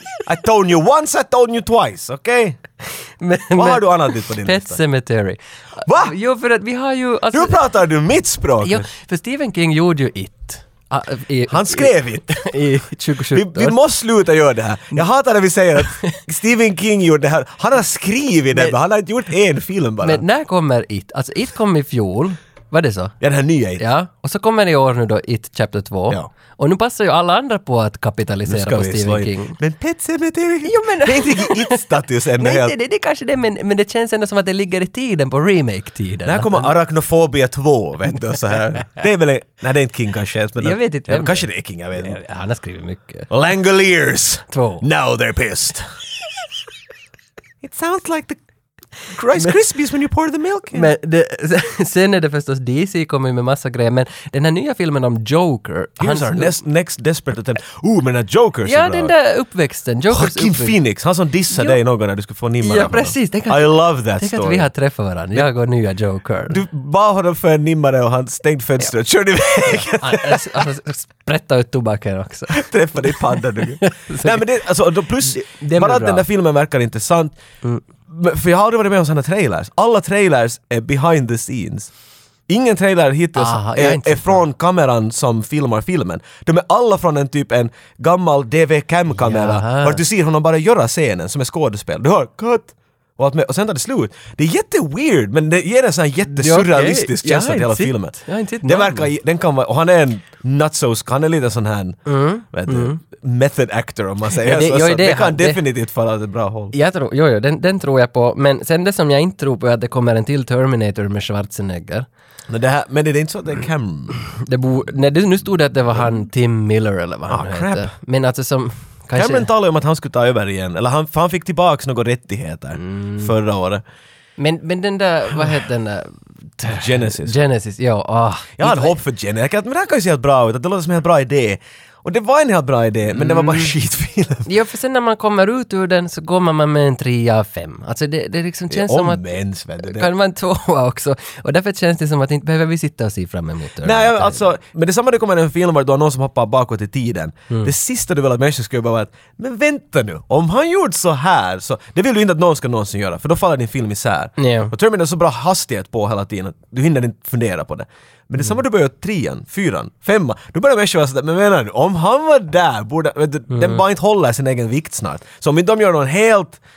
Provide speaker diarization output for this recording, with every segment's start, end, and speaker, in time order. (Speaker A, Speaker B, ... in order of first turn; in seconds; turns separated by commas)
Speaker A: 0.3-2.6, Speaker B: 3.2-7.6, Speaker A: 3.5-4.8, Speaker A: 5.8-6.1, Speaker A: 7.3-8.9, Speaker B: 8.6-13.8, Speaker A: 11.5-12.4, Speaker A: 13.3-20.2, Speaker B: 20.0-23.2, Speaker A: 23.2-23.8, Speaker B: 23.8-29.6, Speaker A: 28.5-32.7, Speaker B: 30.6-31.9, Speaker B: 32.4-36.7, Speaker A: 36.3-42.2, Speaker B: 40.6-43.3, Speaker A: 43.3-45.9, Speaker B: 44.5-44.9, Speaker A: 47.6-48.4, Speaker A: 49.1-50.9, Speaker B: 49.3-49.6, Speaker B: 50.7-56.6, Speaker A: 56.0-59.1, Speaker B: 58.6-60.8, Speaker A: 60.1-64.7, Speaker B: 61.5-61.8, Speaker B: 62.6-66.6, Speaker A: 66.5-70.7, Speaker B: 69.7-73.2, Speaker A: 72.5-77.4, Speaker B: 73.8-74.5, Speaker B: 75.2-76.2, Speaker A: 78.1-81.9, Speaker A: 82.5-102.0, Speaker B: 83.3-84.4, Speaker B: 89.2-90.0, Speaker B: 96.3-99.1, Speaker B: 102.1-103.0, Speaker A: 102.5-106.7, Speaker B: 104.4-105.6, Speaker B: 106.7-112.1, Speaker A: 112.5-114.2, Speaker B: 114.3-119.5, Speaker A: 117.3-117.9, Speaker A: 119.2-123.8, Speaker B: 122.8-123.3, Speaker B: 124.4-129.0, Speaker A: 126.7-127.4, Speaker A: 128.6-134.5, Speaker B: 133.2-133.7, Speaker B: 134.5-139.2, Speaker A: 138.7-140.1, Speaker B: 139.8-144.4, Speaker A: 143.8-166.6, Speaker B: 154.4-154.7, Speaker B: 163.5-163.8